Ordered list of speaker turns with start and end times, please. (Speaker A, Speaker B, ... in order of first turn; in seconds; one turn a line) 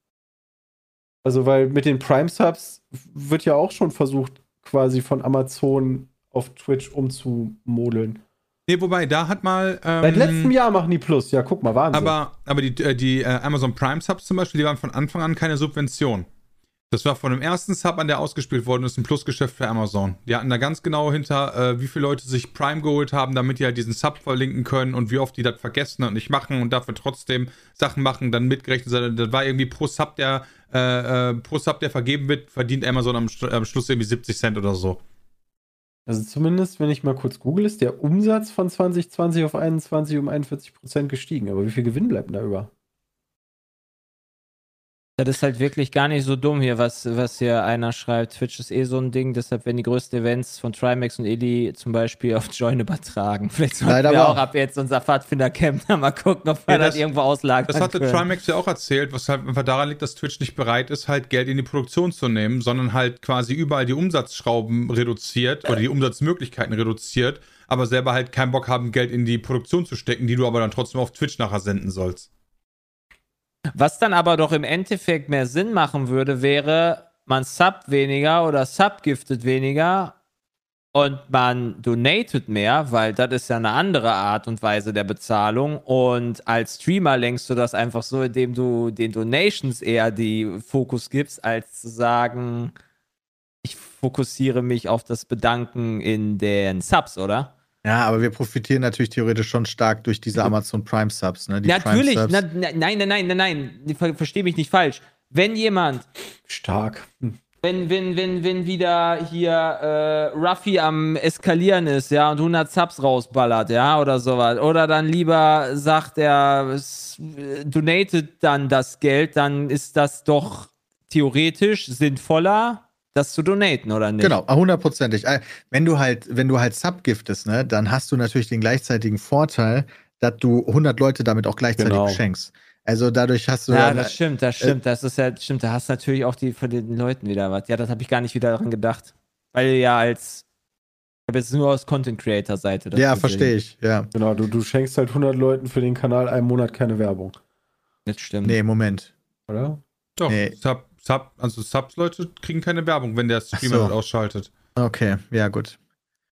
Speaker A: 1.2-8.2
Speaker B: 8.7-10.5
Speaker A: 10.0-12.2
Speaker B: 11.9-16.3
Speaker B: 16.9-35.0
Speaker A: 36.1-42.7
Speaker C: 45.2-58.3
Speaker D: 53.9-54.4
Speaker B: 56.7-57.0
Speaker B: 57.7-72.3
Speaker C: 73.8-80.2
Speaker C: 80.9-92.7
Speaker C: 93.6-97.5
Speaker D: 97.8-102.4
Speaker C: 101.7-106.1
Speaker A: 106.5-107.4
Speaker C: 107.6-124.4
Speaker D: 124.2-134.8
Speaker A: 131.8-132.2
Speaker C: 133.7-140.4
Speaker C: 141.3-143.5
Speaker D: 142.9-144.1
Speaker A: 144.1-147.4
Speaker C: 148.1-148.6
Speaker D: 148.4-149.1
Speaker A: 149.5-149.8
Speaker B: 150.2-154.5
Speaker D: 150.3-150.5
Speaker D: 153.5-153.9
Speaker D: 154.8-155.8